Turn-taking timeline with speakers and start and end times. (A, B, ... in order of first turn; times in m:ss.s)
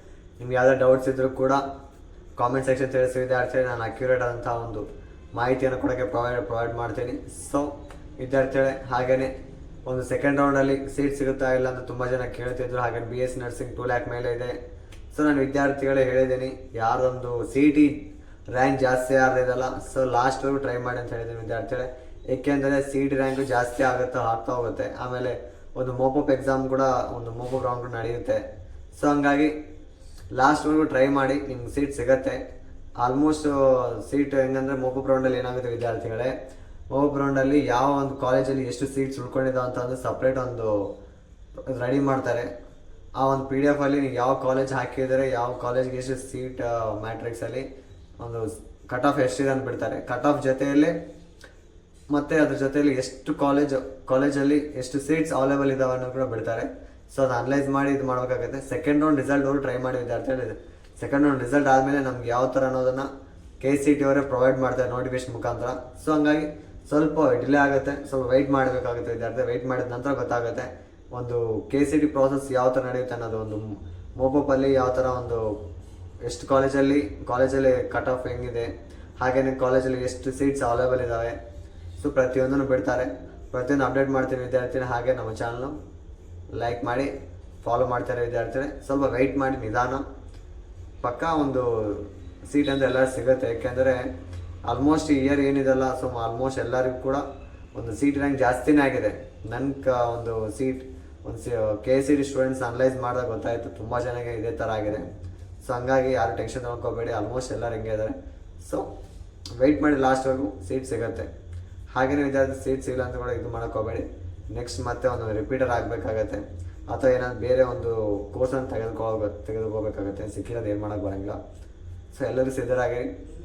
0:00.4-0:01.6 A
0:02.4-0:09.3 A
0:09.8-0:14.6 A
0:15.1-0:18.0 A
0:18.5-0:28.4 A
0:29.0-0:29.5 A
0:30.3-0:32.4 A
0:33.0-0:36.3 A
0:36.9-0:40.8 A
0:41.7-0:42.5 A
0:43.2-0:47.6 A
0:48.2-0:51.0 A
0:52.1-1:03.1 A
1:03.6-1:15.4 A
1:16.2-1:18.7 A
1:19.2-1:21.4 A
1:22.0-1:25.8 A
1:26.5-1:27.1 A
1:27.6-1:30.0 A
1:31.0-1:34.1 A
1:34.6-1:37.2 A
1:37.7-1:45.1 A
1:45.6-1:48.8 A
1:49.6-1:51.3 A
1:51.9-2:01.4 A
2:02.1-2:03.1 A